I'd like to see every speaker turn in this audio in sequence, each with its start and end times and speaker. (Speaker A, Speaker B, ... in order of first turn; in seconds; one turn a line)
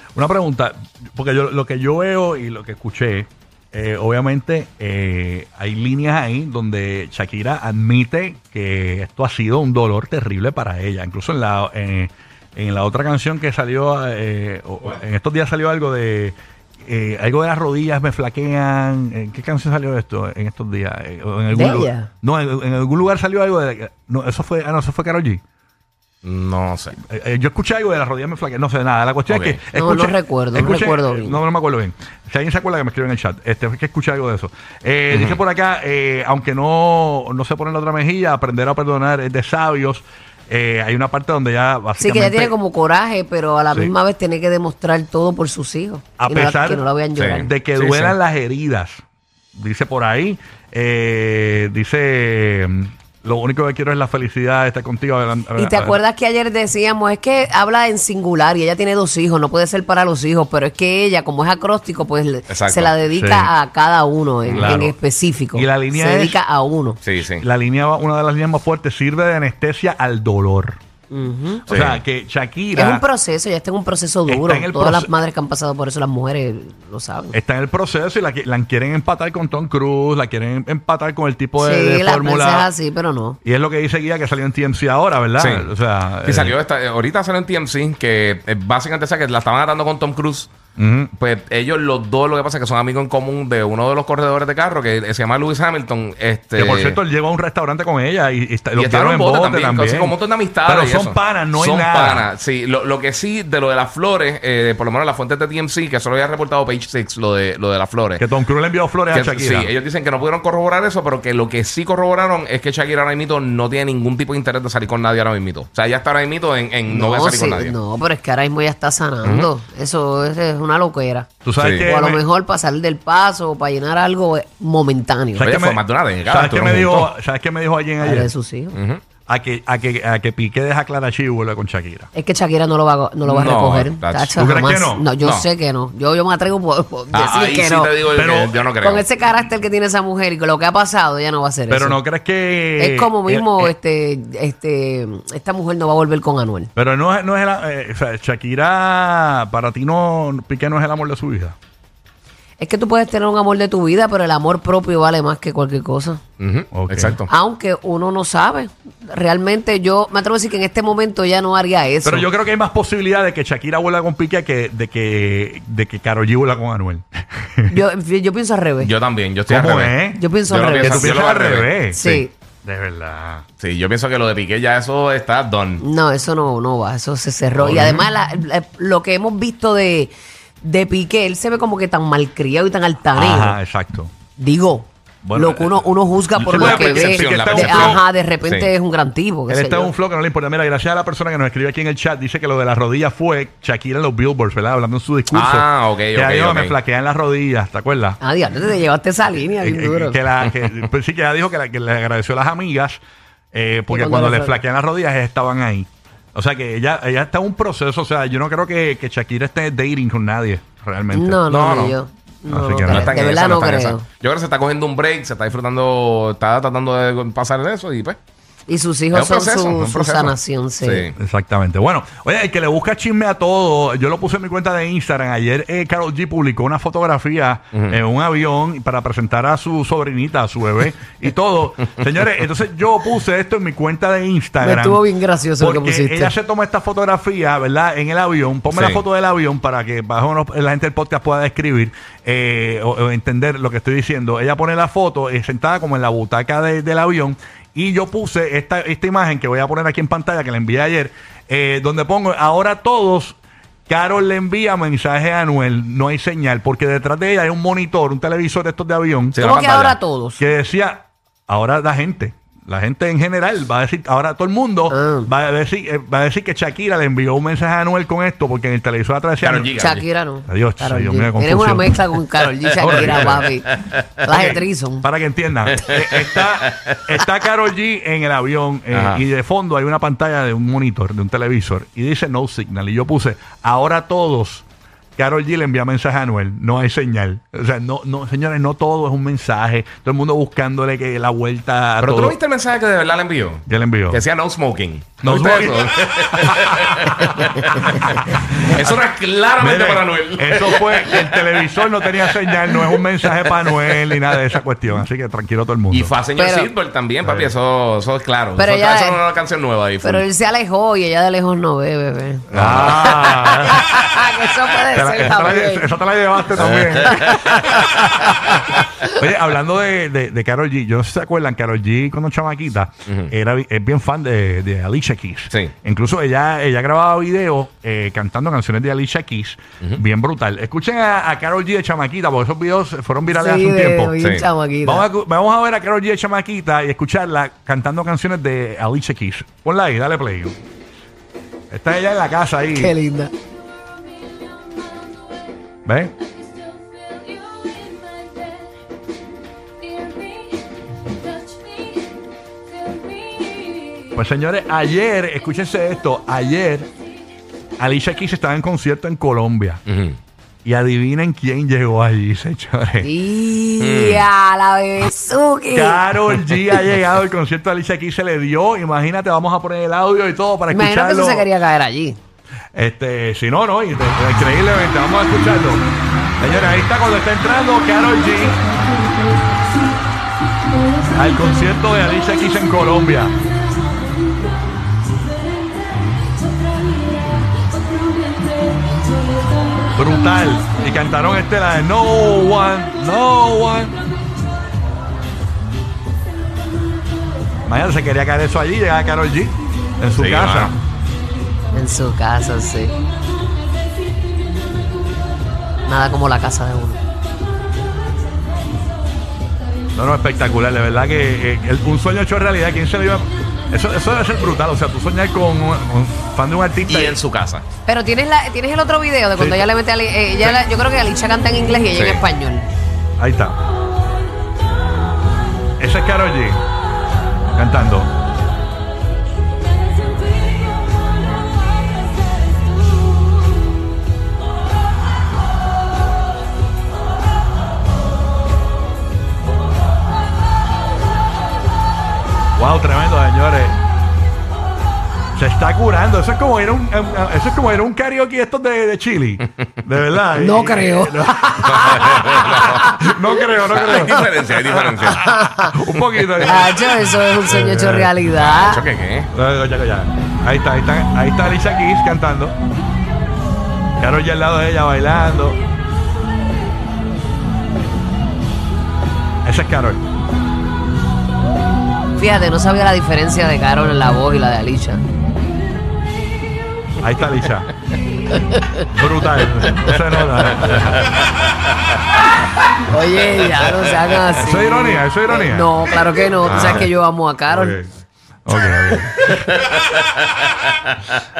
Speaker A: 0.1-25.4
Speaker B: 21.5-22.1
Speaker C: 26.2-27.0
Speaker A: 27.0-42.5
Speaker C: 29.3-29.6
Speaker B: 29.7-31.4
Speaker B: 42.0-47.5
Speaker A: 46.2-49.0
Speaker C: 47.1-48.1
Speaker A: 49.5-56.0
Speaker B: 55.6-67.0
Speaker C: 62.5-62.9
Speaker A: 63.1-63.5
Speaker C: 64.5-64.8
Speaker A: 64.5-64.9
Speaker A: 65.5-66.4
Speaker C: 67.0-67.4
Speaker A: 67.3-70.8
Speaker B: 71.1-71.7
Speaker C: 71.7-72.0
Speaker A: 71.7-73.0
Speaker B: 72.7-77.3
Speaker A: 74.3-75.1
Speaker A: 77.3-82.7
Speaker B: 81.6-83.4
Speaker A: 83.4-86.5
Speaker C: 85.4-85.7
Speaker C: 86.2-90.5
Speaker A: 90.8-91.1
Speaker C: 91.2-97.0
Speaker A: 96.5-100.1
Speaker C: 98.8-108.2
Speaker A: 100.6-102.3
Speaker A: 108.2-109.7
Speaker C: 109.1-117.8
Speaker B: 116.9-125.6
Speaker C: 119.2-119.5
Speaker A: 121.4-122.2
Speaker C: 121.6-121.9
Speaker A: 125.4-128.3
Speaker C: 125.4-127.1
Speaker B: 128.0-128.8
Speaker C: 128.7-129.0
Speaker A: 129.2-132.1
Speaker B: 132.1-138.0
Speaker C: 133.2-134.4
Speaker A: 134.3-135.1
Speaker C: 135.2-135.5
Speaker C: 137.1-139.0
Speaker A: 138.1-138.6
Speaker B: 138.8-142.0
Speaker A: 141.7-143.7
Speaker B: 142.8-146.7
Speaker A: 146.8-151.6
Speaker B: 152.6-156.2
Speaker C: 156.4-157.3
Speaker A: 156.7-157.2
Speaker B: 157.3-162.2
Speaker A: 162.0-167.8
Speaker B: 167.7-168.9
Speaker C: 168.8-171.8
Speaker A: 169.5-170.3
Speaker B: 170.1-171.3
Speaker A: 170.8-173.4
Speaker B: 171.9-172.3
Speaker C: 173.6-175.8
Speaker B: 175.8-183.6
Speaker A: 177.6-178.0
Speaker C: 177.7-177.9
Speaker A: 183.1-184.1
Speaker B: 184.4-189.9
Speaker A: 185.2-188.0
Speaker C: 186.5-188.7
Speaker A: 189.5-198.2
Speaker C: 195.3-196.7
Speaker B: 198.2-200.2
Speaker A: 199.6-203.0
Speaker A: 203.5-211.4
Speaker B: 203.9-204.6
Speaker B: 211.1-214.1
Speaker C: 211.5-212.0
Speaker A: 212.5-213.2
Speaker C: 212.9-218.2
Speaker B: 218.7-221.1
Speaker C: 219.1-221.1
Speaker A: 221.2-235.0
Speaker B: 234.6-236.3
Speaker A: 235.6-253.4
Speaker C: 238.7-239.0
Speaker A: 253.9-259.4
Speaker C: 259.3-260.0
Speaker B: 259.4-260.4
Speaker A: 260.4-269.7
Speaker B: 264.9-265.3
Speaker C: 269.4-270.0
Speaker B: 269.8-275.1
Speaker A: 270.5-272.2
Speaker A: 272.8-273.5
Speaker C: 272.8-274.2
Speaker A: 274.3-284.6
Speaker C: 275.8-277.0
Speaker C: 278.9-279.2
Speaker A: 285.1-292.4
Speaker C: 292.0-301.8
Speaker A: 293.7-294.2
Speaker A: 295.2-299.0
Speaker A: 299.6-306.1
Speaker C: 302.6-304.0
Speaker C: 305.9-310.2
Speaker B: 306.4-306.7
Speaker B: 308.6-309.2
Speaker B: 310.0-315.9
Speaker A: 312.5-314.0
Speaker C: 312.5-313.3
Speaker A: 314.9-334.2
Speaker C: 316.6-318.0
Speaker B: 333.3-335.1
Speaker C: 334.2-334.5
Speaker A: 334.8-340.6
Speaker A: 341.7-342.9
Speaker B: 342.7-343.3
Speaker D: 343.9-345.5
Speaker A: 345.9-346.1
Speaker D: 346.2-348.8
Speaker D: 349.8-354.1
Speaker A: 354.1-356.9
Speaker A: 357.8-359.8
Speaker C: 359.9-360.2
Speaker A: 360.6-363.1
Speaker B: 363.0-366.0
Speaker C: 363.8-364.2
Speaker A: 365.7-371.5
Speaker B: 370.7-372.2
Speaker A: 372.7-375.8
Speaker A: 376.4-378.6
Speaker D: 378.4-391.2
Speaker A: 381.1-383.3
Speaker A: 389.9-393.9
Speaker D: 393.4-394.6
Speaker D: 396.7-397.6
Speaker A: 397.6-400.8
Speaker C: 400.1-400.7
Speaker B: 401.7-403.0
Speaker D: 403.1-405.3
Speaker B: 405.9-407.0
Speaker D: 407.8-409.9
Speaker A: 409.9-417.2
Speaker C: 416.9-417.6
Speaker B: 417.9-422.6
Speaker A: 419.4-419.7
Speaker C: 421.9-422.2
Speaker A: 423.2-423.6
Speaker A: 425.8-426.6
Speaker A: 427.5-428.1
Speaker D: 429.5-433.8
Speaker A: 442.6-443.8
Speaker A: 445.3-458.2
Speaker B: 450.4-453.2
Speaker C: 451.7-452.8
Speaker C: 453.7-455.3
Speaker B: 453.9-454.3
Speaker B: 455.1-455.7
Speaker B: 456.4-458.8
Speaker C: 458.4-459.3
Speaker A: 459.3-462.6
Speaker A: 464.0-465.6
Speaker A: 469.4-470.0
Speaker B: 472.1-475.0
Speaker A: 477.0-477.7
Speaker B: 478.3-478.9
Speaker A: 478.9-481.2
Speaker C: 480.7-481.4
Speaker B: 482.8-487.8
Speaker A: 484.4-485.7
Speaker A: 486.4-486.9
Speaker C: 486.5-486.8
Speaker A: 487.5-487.9
Speaker A: 488.4-489.5
Speaker C: 489.4-491.2